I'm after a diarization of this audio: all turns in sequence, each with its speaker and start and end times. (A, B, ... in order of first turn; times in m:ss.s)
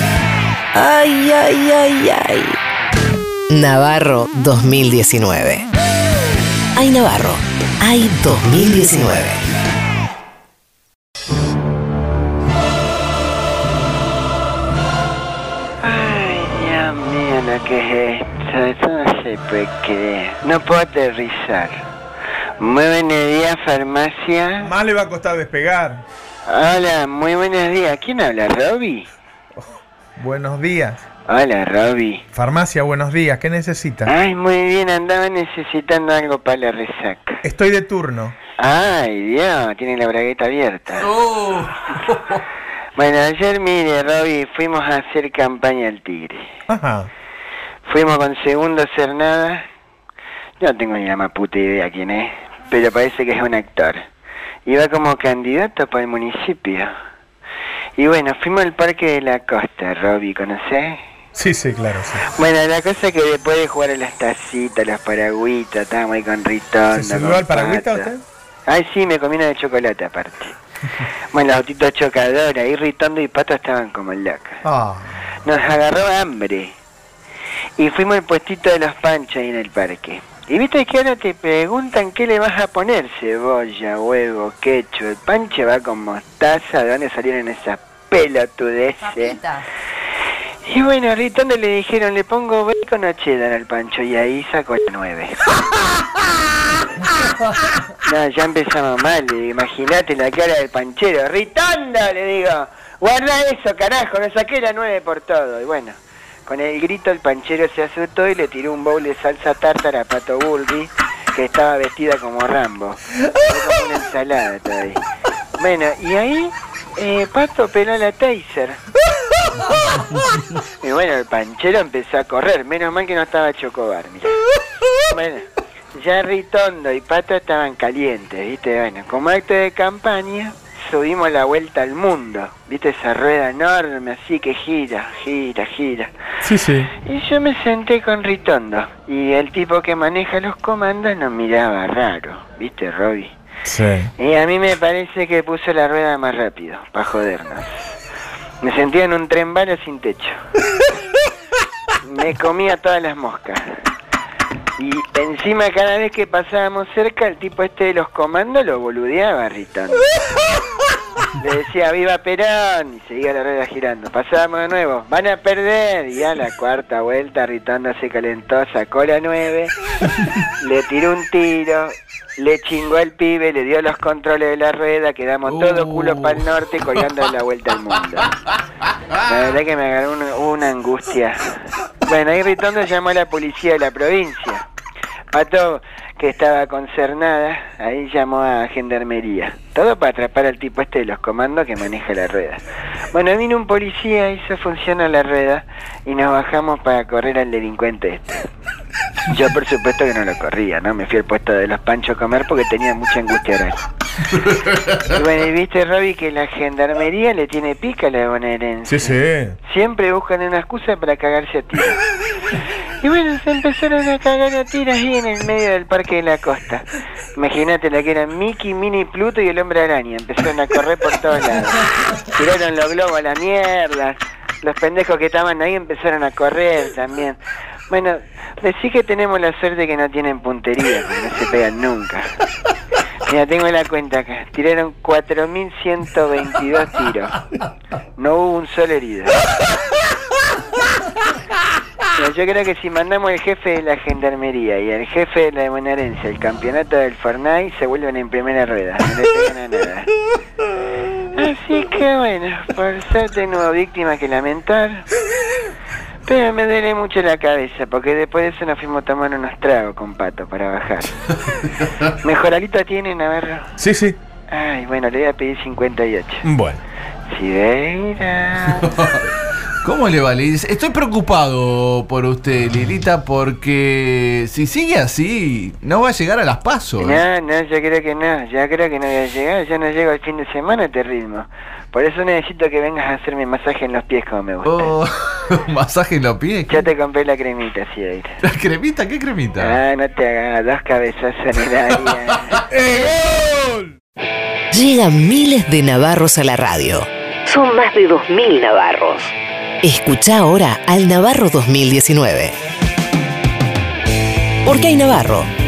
0:00.7-0:02.6 A
0:03.5-0:05.7 A
0:06.8-0:09.4 A
0:15.8-0:21.8 B
0:22.6-0:24.7 B
0:24.6-0:26.0 C
0:26.4-0:29.1 B
0:30.2-0:31.0 C
0:31.3-0:32.2 B
0:32.3-0:34.1 C
0:34.0-0:37.4 B
0:37.4-0:38.4 C
0:38.6-0:41.1 B
0:41.0-0:42.4 D
0:43.0-0:46.5 B
0:46.7-0:47.1 C
0:47.8-0:49.6 B
0:50.6-0:54.0 B
0:54.6-0:56.9 B
0:58.0-1:01.0 B
1:01.3-1:02.2 C
1:02.4-1:08.1 B
1:06.9-1:08.2 C
1:08.7-1:10.5 B
1:11.3-1:14.6 B
1:14.6-1:15.2 C
1:15.4-1:16.7 B
1:17.8-1:29.6 B
1:30.6-1:35.4 B
1:38.0-1:55.0 B
1:55.6-1:58.8 B
2:00.8-2:04.4 B
2:05.1-2:16.1 B
2:16.4-2:16.9 C
2:16.9-2:23.3 B
2:23.6-2:24.1 C
2:24.2-2:28.0 B
2:28.6-2:30.4 B
2:32.0-2:33.8 B
2:34.8-2:40.1 B
2:41.4-2:49.7 B
2:50.6-2:58.3 B
2:55.4-2:56.4 D
2:59.2-3:04.6 B
3:05.3-3:18.5 B
3:19.3-3:23.8 B
3:25.0-3:32.0 B
3:28.8-3:29.6 C
3:33.0-3:52.3 B
3:53.2-3:57.4 B
3:58.2-3:59.4 B
4:02.1-4:10.1 B
4:11.3-4:15.1 B
4:16.2-4:21.1 B
4:21.6-4:22.0 D
4:22.2-4:23.7 B
4:23.8-4:24.2 C
4:24.5-4:26.4 B
4:26.4-4:26.8 C
4:27.3-4:29.0 B
4:28.8-4:29.2 D
4:29.8-4:37.2 D
4:37.0-4:44.9 B
4:44.6-4:46.9 D
4:46.7-4:48.3 B
4:48.4-4:49.8 D
4:49.6-4:52.6 B
4:52.3-4:52.6 D
4:52.7-4:53.9 C
4:54.7-5:02.6 A
5:04.6-5:05.5 A